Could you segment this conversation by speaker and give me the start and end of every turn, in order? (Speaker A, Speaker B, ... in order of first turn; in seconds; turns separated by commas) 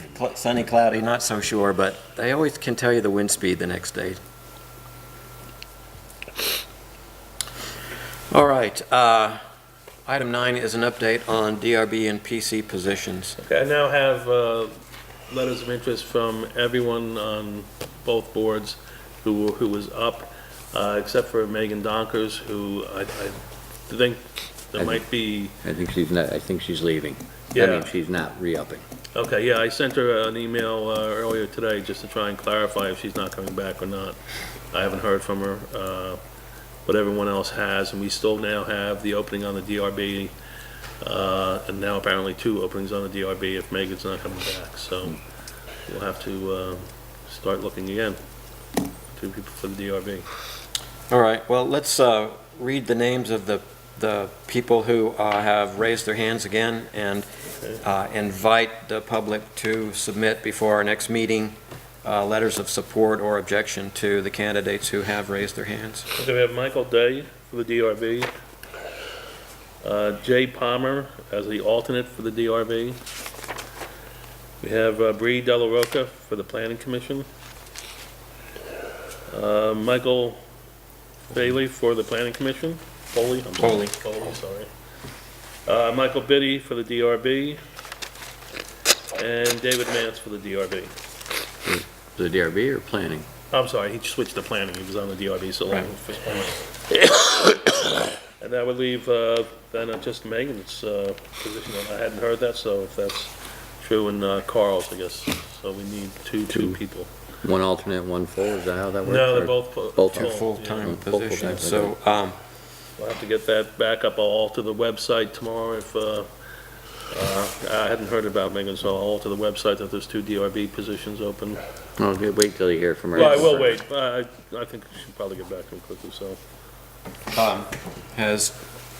Speaker A: 0.1-4.2, Speaker A: 8.3-9.4, Speaker A: 10.1-13.4, Speaker B: 13.4-14.7, Speaker B: 15.3-25.5, Speaker C: 24.8-25.0, Speaker C: 25.6-28.8, Speaker B: 27.5-27.9, Speaker B: 29.1-34.2, Speaker B: 34.7-36.2, Speaker B: 36.8-40.3, Speaker B: 41.0-45.2, Speaker B: 45.9-48.2, Speaker B: 49.1-50.2, Speaker A: 51.1-57.3, Speaker A: 57.8-66.1, Speaker B: 66.2-68.3, Speaker B: 69.8-73.0, Speaker B: 74.6-77.2, Speaker B: 79.3-80.4, Speaker B: 81.3-84.7, Speaker A: 83.6-84.0, Speaker B: 85.7-87.6, Speaker B: 89.2-90.9, Speaker C: 91.7-93.3, Speaker B: 93.5-96.6, Speaker B: 98.4-107.1, Speaker C: 106.5-106.8, Speaker C: 107.4-111.9, Speaker B: 109.0-110.9, Speaker A: 110.1-112.4, Speaker B: 113.0-116.3, Speaker B: 117.1-121.6, Speaker C: 122.0-123.8, Speaker B: 123.1-126.4, Speaker A: 127.3-128.5